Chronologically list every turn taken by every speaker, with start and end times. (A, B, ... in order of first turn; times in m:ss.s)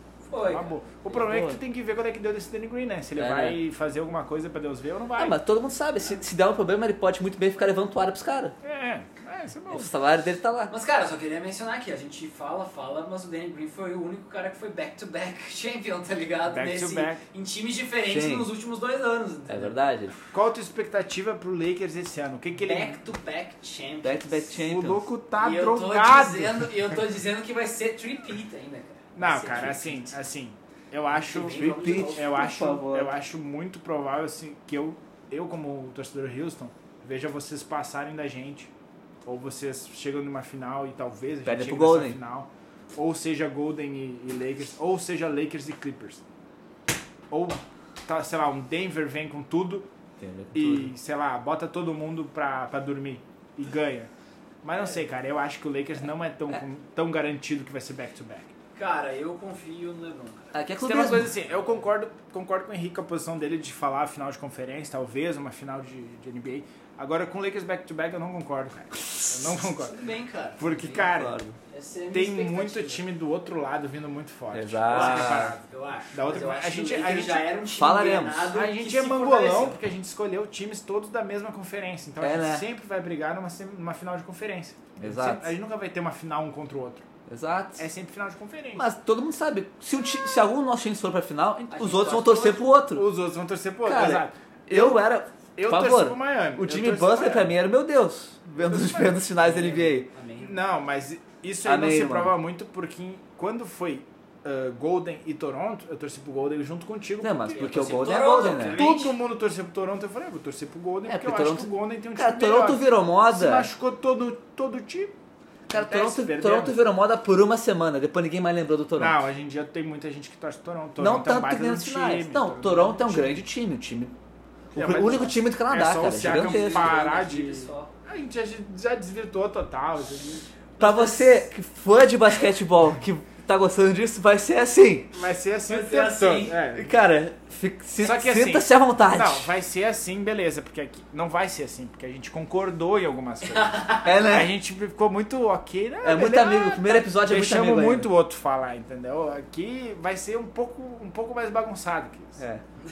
0:00.2-0:00.7 A
0:00.4-0:05.4 B
0:01.1-0:01.6 C
0:03.2-0:03.6 C
0:05.2-0:08.6 C
0:08.6-0:09.9 B
0:09.7-0:10.7 C
0:10.7-0:19.8 A
0:16.5-0:17.2 B
0:18.1-0:18.5 C
0:19.5-0:20.2 C
0:20.3-0:23.0 B
0:22.6-0:24.2 A
0:24.0-0:25.1 C
0:24.5-0:27.0 B
0:25.4-0:30.1 A
0:29.2-0:38.7 B
0:31.1-0:32.3 A
0:31.3-0:33.1 C
0:39.2-0:46.2 B
0:41.4-0:42.2 C
0:47.3-0:49.9 B
0:50.2-0:50.9 C
0:50.5-0:54.1 B
0:54.6-0:58.5 B
0:58.8-1:00.6 A
1:00.5-1:01.3 C
1:00.8-1:10.0 B
1:09.6-1:11.1 A
1:10.6-1:11.4 B
1:11.0-1:11.6 C
1:11.7-1:13.0 A
1:12.1-1:17.5 B
1:14.5-1:15.6 C
1:14.9-1:19.8 A
1:17.8-1:18.6 C
1:18.5-1:27.0 B
1:22.2-1:22.7 C
1:25.0-1:25.5 C
1:27.3-1:27.9 C
1:27.8-1:28.9 B
1:28.8-1:33.0 C
1:31.7-1:32.6 A
1:32.9-1:35.0 B
1:33.8-1:40.1 C
1:35.6-1:37.5 B
1:38.6-1:39.8 B
1:39.4-1:40.6 A
1:40.4-1:55.1 B
1:41.6-1:42.4 C
1:47.2-1:48.8 C
1:47.6-1:49.2 A
1:51.1-1:53.7 C
1:55.7-1:59.2 C
1:55.7-1:56.7 B
1:59.0-2:03.5 B
2:01.0-2:04.2 C
2:04.7-2:07.0 C
2:04.7-2:10.9 B
2:06.2-2:07.9 A
2:10.8-2:15.1 C
2:10.8-2:11.4 A
2:15.1-2:16.9 B
2:15.7-2:16.6 A
2:16.7-2:19.5 C
2:18.0-2:32.4 B
2:23.5-2:24.1 A
2:24.0-2:24.5 C
2:26.0-2:28.1 C
2:32.4-2:32.6 C